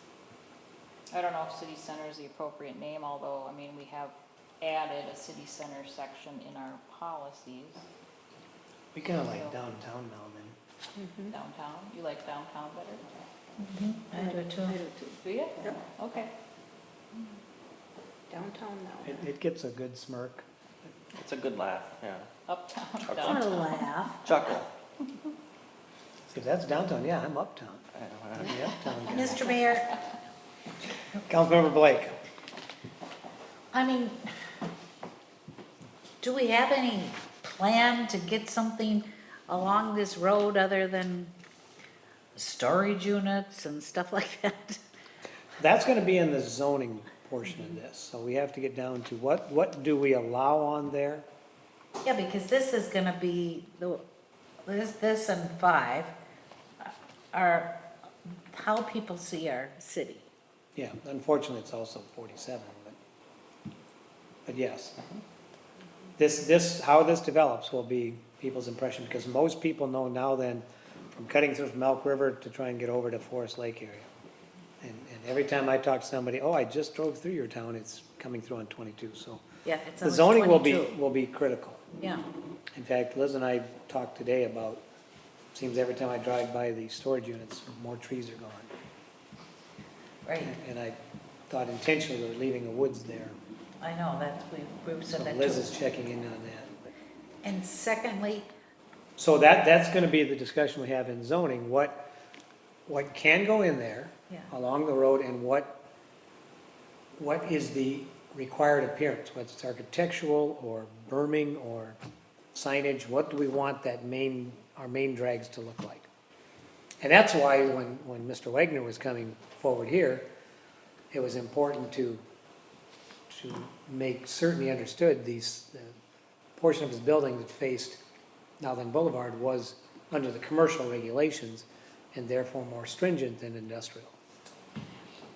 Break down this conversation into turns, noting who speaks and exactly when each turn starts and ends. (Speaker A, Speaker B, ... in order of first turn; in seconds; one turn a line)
Speaker A: 1.1-7.8
Speaker B: 8.9-10.6
Speaker A: 9.2-9.6
Speaker C: 11.0-11.3
Speaker A: 11.3-13.0
Speaker D: 13.6-14.8
Speaker C: 14.1-15.8
Speaker A: 15.2-16.3
Speaker C: 18.3-19.2
Speaker B: 19.0-20.4
Speaker E: 21.1-22.3
Speaker A: 22.5-23.8
Speaker E: 23.0-23.6
Speaker D: 23.2-24.2
Speaker E: 24.2-24.7
Speaker B: 26.3-27.8
Speaker E: 27.9-28.6
Speaker B: 28.4-29.5
Speaker D: 29.0-29.9
Speaker B: 31.2-32.1
Speaker D: 33.7-34.2
Speaker D: 36.2-41.3
Speaker D: 42.3-44.8
Speaker B: 45.6-51.2
Speaker D: 52.0-54.0
Speaker D: 54.7-56.1
Speaker D: 56.8-57.8
Speaker D: 58.5-60.2
Speaker B: 60.7-63.0
Speaker B: 64.5-65.0
Speaker B: 66.2-74.1
Speaker B: 74.8-79.4
Speaker D: 79.6-80.9
Speaker B: 80.0-81.8
Speaker B: 82.7-84.8
Speaker B: 85.5-88.7
Speaker D: 90.2-90.5
Speaker B: 90.4-91.0
Speaker B: 91.5-93.3
Speaker D: 93.8-95.7
Speaker B: 95.1-96.7
Speaker D: 97.4-98.5
Speaker B: 99.2-102.0
Speaker B: 102.9-105.8
Speaker B: 107.2-112.0
Speaker B: 112.5-116.1
Speaker B: 117.0-120.3
Speaker B: 121.1-122.2
Speaker B: 123.3-126.0
Speaker B: 126.6-128.0
Speaker B: 128.6-134.2